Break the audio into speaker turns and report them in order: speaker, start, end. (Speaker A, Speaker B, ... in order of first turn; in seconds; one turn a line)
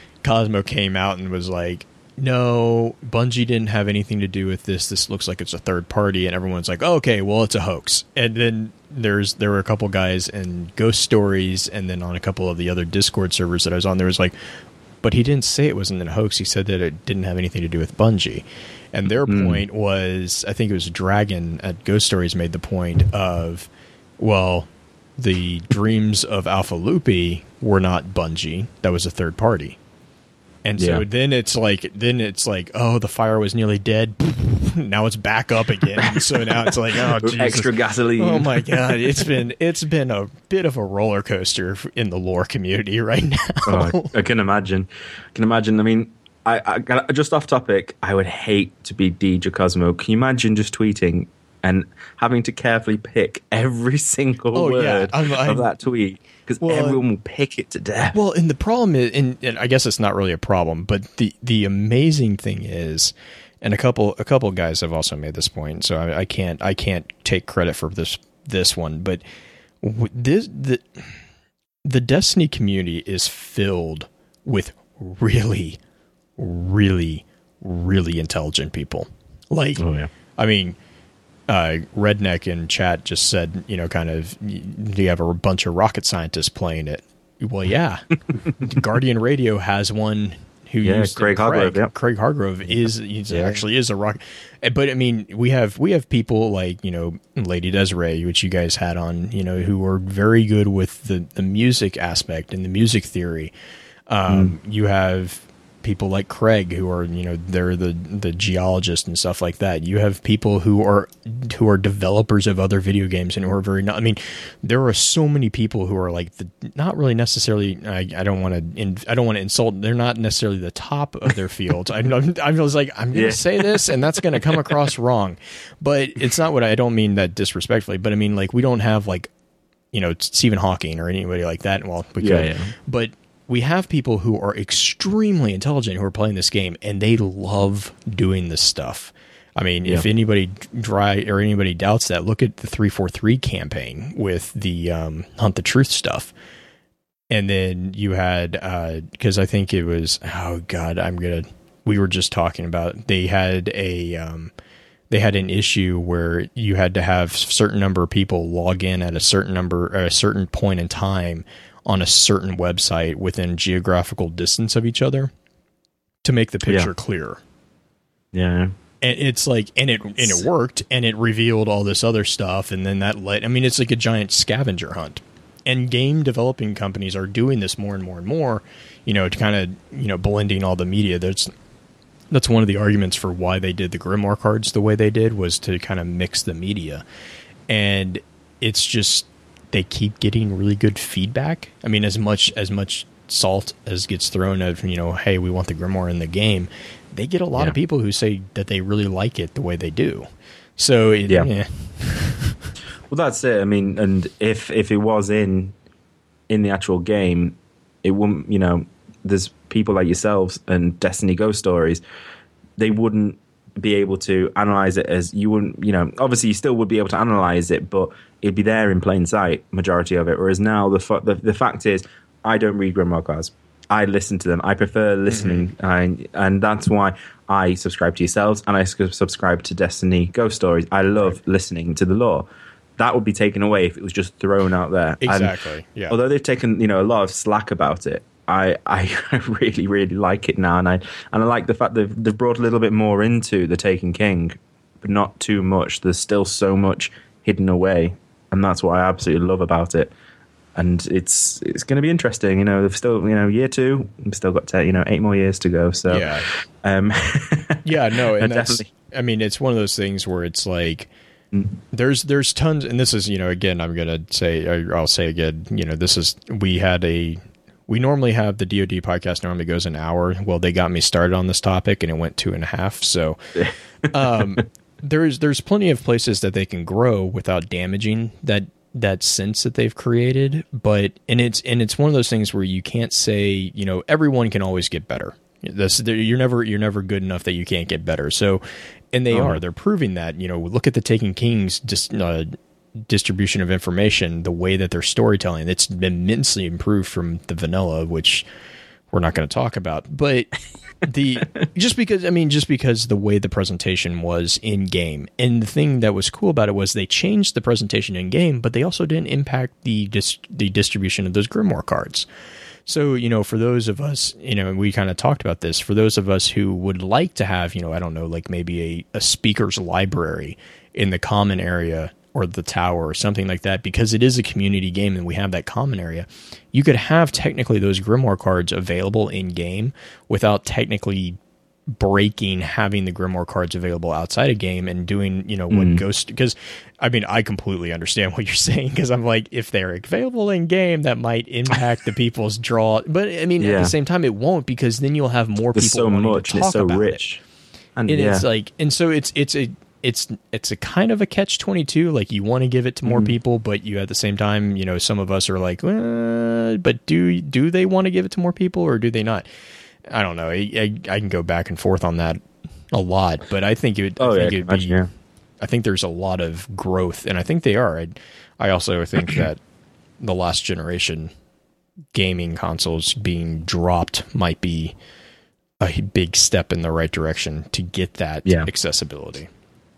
Speaker A: 0.2-14.3
Speaker A: 15.0-29.8
Speaker B: 19.2-19.6
Speaker A: 30.6-44.1
Speaker B: 30.8-31.0
Speaker B: 36.0-39.2
Speaker B: 43.6-58.1
Speaker A: 54.5-55.7
Speaker A: 56.6-57.0
Speaker A: 58.1-69.2
Speaker A: 69.8-71.2
Speaker A: 71.8-75.8
Speaker A: 76.4-79.8
Speaker B: 79.8-80.1
Speaker A: 80.3-80.8
Speaker A: 81.5-88.0
Speaker A: 88.6-103.5
Speaker B: 90.8-91.9
Speaker B: 93.3-93.6
Speaker A: 104.1-129.3
Speaker B: 104.3-104.5
Speaker B: 123.1-124.8
Speaker A: 129.9-146.3
Speaker B: 132.2-132.7
Speaker A: 147.3-154.5
Speaker A: 155.1-165.3
Speaker A: 166.2-167.4
Speaker B: 168.3-168.7
Speaker A: 169.0-181.5
Speaker A: 182.3-187.0
Speaker A: 187.7-202.7
Speaker B: 203.1-205.7
Speaker B: 206.5-212.0
Speaker B: 212.8-232.4
Speaker A: 225.3-225.7
Speaker B: 233.0-235.5
Speaker A: 235.2-236.1
Speaker B: 236.1-250.1
Speaker B: 250.8-258.9
Speaker A: 256.1-256.5
Speaker A: 257.8-261.1
Speaker A: 261.9-273.4
Speaker A: 274.1-298.4
Speaker B: 289.3-289.6
Speaker A: 299.1-300.5
Speaker A: 301.0-312.3
Speaker A: 312.9-347.2
Speaker B: 335.7-336.0
Speaker B: 343.6-343.9
Speaker B: 345.7-347.4
Speaker B: 348.0-348.4
Speaker A: 348.1-359.5
Speaker B: 353.1-353.3
Speaker A: 360.1-365.0
Speaker B: 364.2-365.1
Speaker A: 365.6-369.6
Speaker A: 370.2-371.3
Speaker A: 372.1-374.9
Speaker A: 375.8-379.5